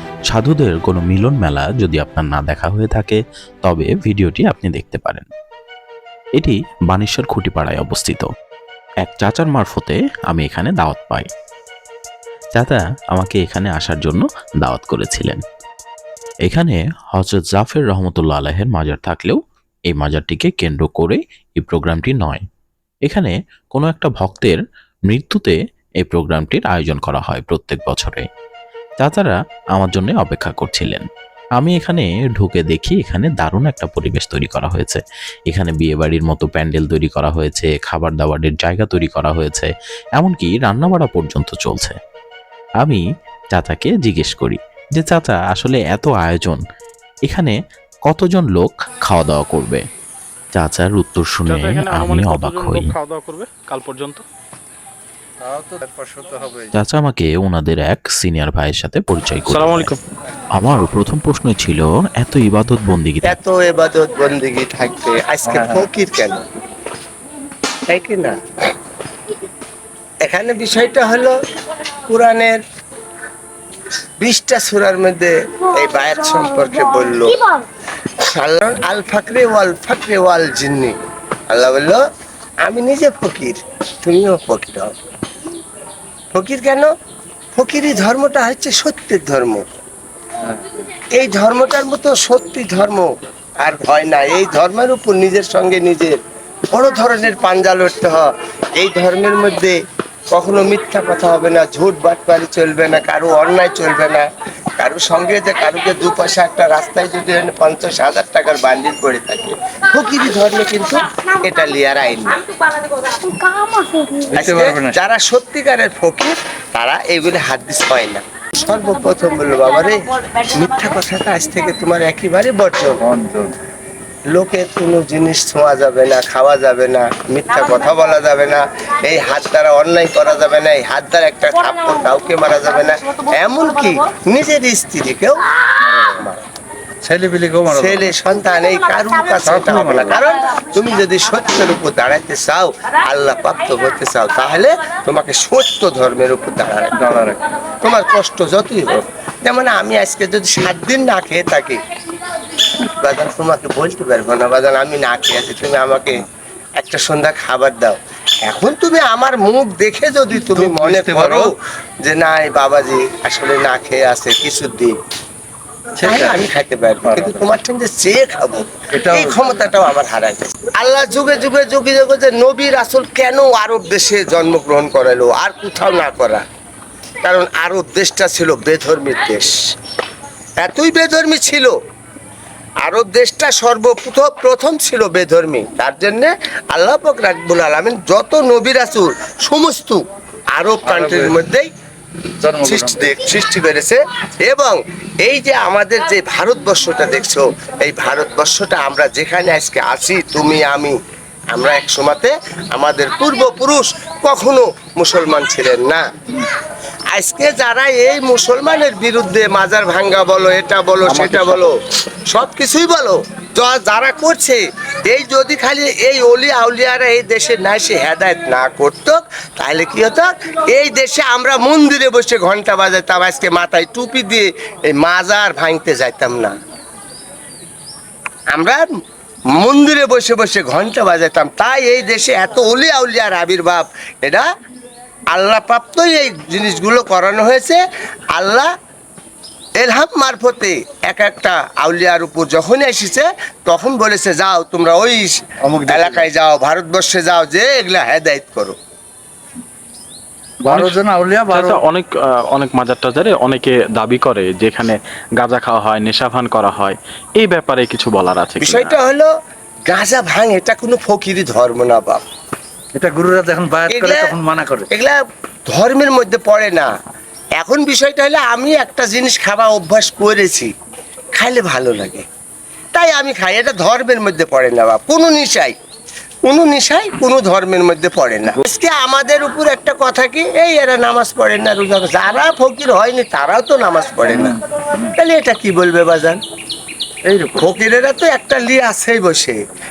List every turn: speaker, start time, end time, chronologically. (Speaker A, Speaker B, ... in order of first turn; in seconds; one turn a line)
Speaker A: 0.3-5.3
Speaker A: 6.4-8.3
Speaker A: 9.0-11.3
Speaker A: 12.6-15.4
Speaker A: 16.4-19.4
Speaker A: 19.9-22.4
Speaker A: 23.1-28.2
Speaker A: 29.0-31.1
Speaker A: 31.6-42.0
Speaker A: 42.8-46.6
Speaker A: 47.3-47.5
Speaker A: 48.1-49.8
Speaker A: 50.5-52.9
Speaker B: 51.5-54.2
Speaker C: 55.4-56.7
Speaker A: 56.8-59.9
Speaker B: 59.5-60.0
Speaker A: 60.6-63.4
Speaker D: 63.2-66.4
Speaker C: 65.5-65.8
Speaker D: 67.9-68.4
Speaker D: 70.2-71.3
Speaker D: 72.1-72.6
Speaker D: 74.2-77.6
Speaker D: 78.2-81.0
Speaker D: 81.5-82.0
Speaker D: 82.6-84.9
Speaker D: 86.3-86.9
Speaker D: 87.5-89.7
Speaker D: 91.1-93.1
Speaker D: 93.6-96.2
Speaker D: 96.7-99.8
Speaker D: 100.3-104.2
Speaker D: 104.8-112.4
Speaker D: 113.2-113.6
Speaker C: 114.2-115.0
Speaker D: 114.3-123.0
Speaker C: 123.0-123.5
Speaker D: 124.3-136.4
Speaker C: 135.8-136.1
Speaker C: 137.0-138.2
Speaker D: 137.7-147.3
Speaker C: 139.4-140.2
Speaker C: 147.0-147.4
Speaker D: 147.8-151.8
Speaker D: 153.0-165.0
Speaker C: 160.6-161.5
Speaker C: 166.0-166.4
Speaker D: 166.0-176.4
Speaker C: 167.1-167.5
Speaker C: 169.0-169.7
Speaker D: 177.2-179.6
Speaker D: 180.6-181.7
Speaker D: 182.8-190.0
Speaker D: 190.5-191.7
Speaker C: 190.8-191.4
Speaker C: 192.4-193.1
Speaker D: 192.5-201.0
Speaker D: 201.5-206.1
Speaker D: 207.1-211.7
Speaker C: 211.1-211.6
Speaker D: 212.3-226.6
Speaker D: 228.5-228.8
Speaker D: 229.6-234.5
Speaker D: 235.3-237.8
Speaker D: 238.3-238.7
Speaker D: 239.8-248.8
Speaker C: 245.7-246.3
Speaker C: 250.6-251.8
Speaker B: 250.7-251.0
Speaker B: 251.5-258.9
Speaker D: 258.6-259.3
Speaker D: 259.9-262.2
Speaker C: 262.9-264.9
Speaker D: 263.9-264.3
Speaker D: 264.9-266.9
Speaker D: 267.6-270.7
Speaker D: 271.4-272.2
Speaker D: 272.9-275.8
Speaker D: 276.4-284.6
Speaker C: 284.3-284.5
Speaker D: 285.2-286.4
Speaker C: 287.3-287.6
Speaker D: 287.4-289.6